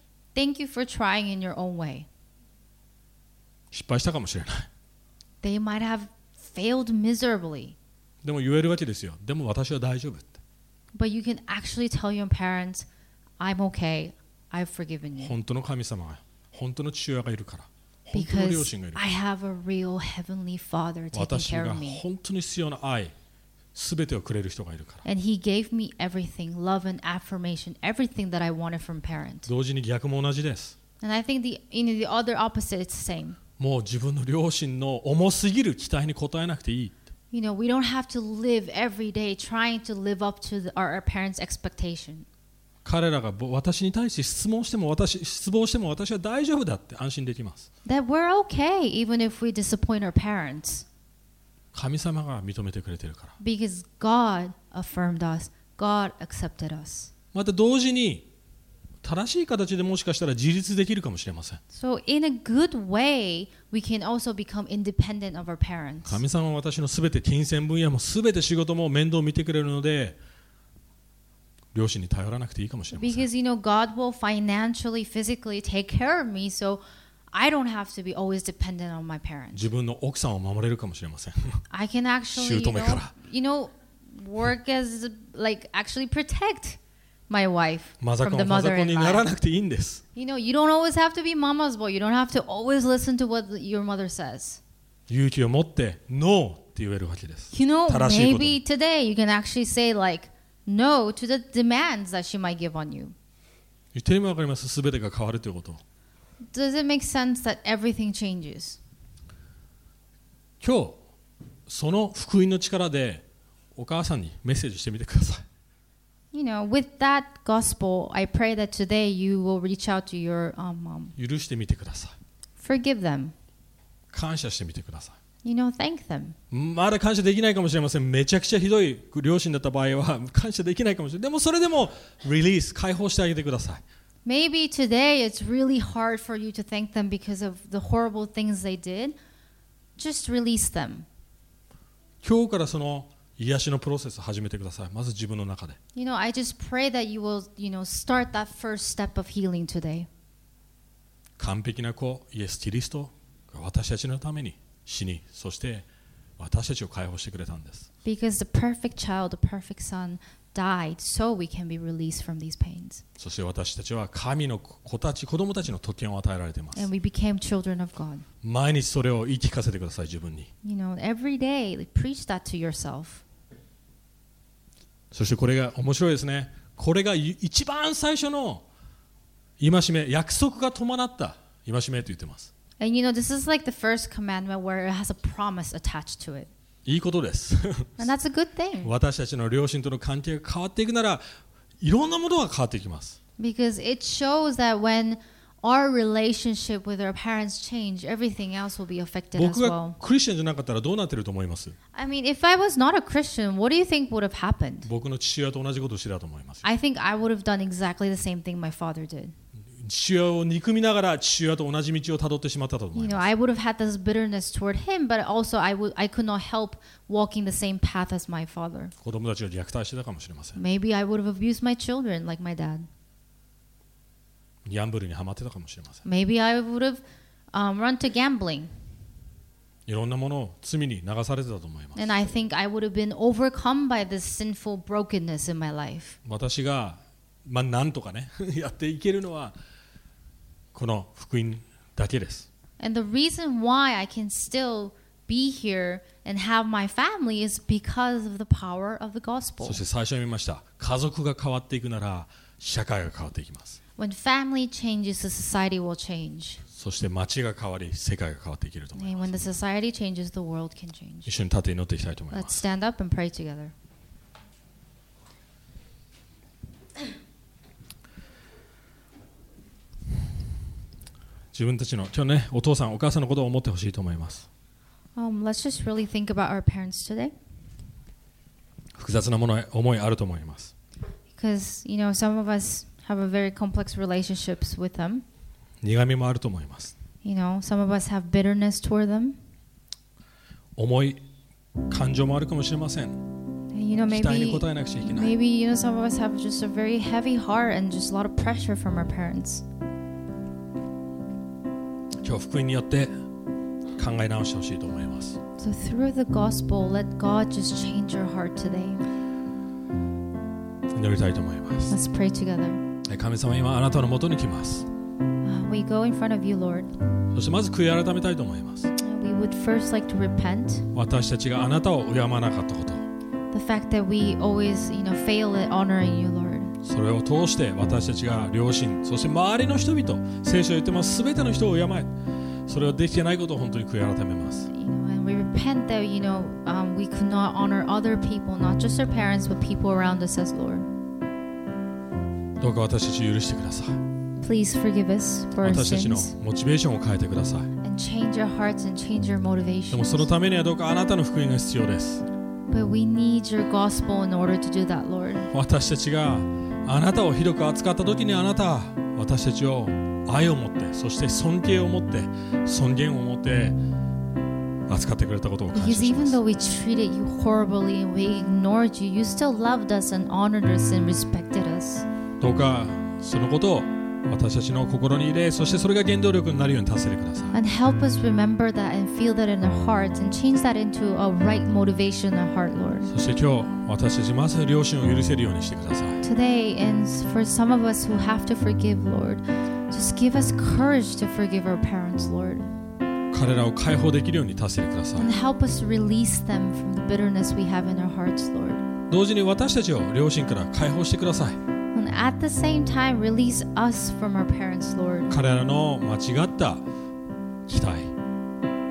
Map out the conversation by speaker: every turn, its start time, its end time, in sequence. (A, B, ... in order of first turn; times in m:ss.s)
0:00.4-0:02.1 A
0:03.7-0:04.7 B
0:05.4-0:07.8 A
0:08.2-0:10.4 B
0:10.9-0:12.9 A
0:13.4-0:15.4 A
0:15.2-0:19.0 B
0:18.1-0:22.0 A
0:21.1-0:23.1 B
0:23.7-0:25.0 B
0:25.0-0:29.5 A
0:29.5-0:30.8 B
0:31.0-0:33.4 A
0:33.6-0:37.0 B
0:37.3-0:42.3 A
0:42.8-0:47.7 B
0:47.8-0:50.9 A
0:51.7-0:53.4 B
0:53.4-0:57.1 A
0:57.3-0:58.3 B
0:59.0-1:01.6 B
1:01.7-1:06.2 A
1:06.1-1:10.2 B
1:11.7-1:13.3 B
1:12.9-1:19.6 A
1:19.5-1:21.6 B
1:21.7-1:29.3 A
1:22.3-1:23.1 B
1:28.0-1:30.0 B
1:30.2-1:34.6 A
1:35.1-1:38.6 B
1:37.5-1:43.1 A
1:43.9-1:45.8 B
1:46.5-1:48.8 A
1:50.6-1:51.0 B
1:51.7-1:53.2 B
1:53.8-1:55.4 B
1:56.3-2:01.2 A
2:01.2-2:02.1 B
2:02.6-2:03.3 A
2:04.1-2:05.2 B
2:05.4-2:06.4 A
2:06.5-2:13.8 B
2:14.2-2:19.2 A
2:20.0-2:21.1 A
2:22.2-2:25.8 B
2:26.0-2:30.1 A
2:31.4-2:35.9 B
2:36.4-2:37.9 B
2:38.0-2:43.0 A
2:43.2-2:46.9 B
2:46.7-2:48.2 A
2:48.4-2:50.5 B
2:50.6-2:53.2 A
2:55.1-2:58.6 B
2:59.6-3:02.5 B
3:02.8-3:06.5 A
3:06.8-3:08.1 B
3:08.0-3:08.9 A
3:08.8-3:11.2 B
3:11.8-3:13.2 B
3:13.4-3:20.0 A
3:19.4-3:21.8 B
3:22.0-3:24.9 A
3:24.8-3:26.6 B
3:26.6-3:29.3 A
3:29.8-3:33.3 B
3:33.0-3:38.9 A
3:39.0-3:40.6 B
3:40.6-3:42.9 A
3:44.6-3:46.0 B
3:46.0-3:47.0 A
3:47.5-3:48.7 A
3:49.9-3:52.3 B
3:52.0-3:56.2 A
3:56.2-3:59.5 B
4:00.7-4:02.5 B
4:02.8-4:09.8 A
4:09.6-4:13.8 B
4:14.0-4:16.6 A
4:16.7-4:19.4 B
4:19.0-4:21.3 A
4:21.2-4:22.6 B
4:22.3-4:23.7 A
4:31.5-4:34.5 B
4:35.2-4:37.3 A
4:39.0-4:40.7 B
4:41.3-4:45.2 A
4:45.8-4:46.9 B
4:47.2-4:49.4 A
4:50.8-4:51.2 B
4:51.9-4:53.2 B
4:53.7-4:59.6 A
4:54.1-4:55.3 B
5:02.2-5:03.1 B
5:04.0-5:05.4 B
5:05.6-5:09.0 A
5:10.9-5:12.0 B
5:11.9-5:12.8 A
5:13.0-5:14.9 B
5:15.4-5:16.9 A
5:17.3-5:18.9 B
5:19.0-5:20.9 A
5:20.9-5:23.0 B
5:23.5-5:26.7 A
5:26.8-5:32.1 B
5:32.7-5:34.7 B
5:34.7-5:40.9 A
5:42.6-5:44.0 B
5:44.4-5:46.3 A
5:45.6-5:47.7 B
5:47.8-5:50.3 A
5:49.9-5:52.2 B
5:52.7-5:55.5 A
5:55.5-6:03.8 B
6:04.9-6:06.4 B
6:05.7-6:12.0 A
6:12.4-6:17.6 B
6:17.5-6:23.1 A
6:23.1-6:26.2 B
6:26.2-6:32.7 A
6:33.3-6:35.3 B
6:35.2-6:38.8 A
6:39.1-6:41.6 B
6:42.0-6:45.3 A
6:45.3-6:46.9 B
6:47.7-6:48.1 B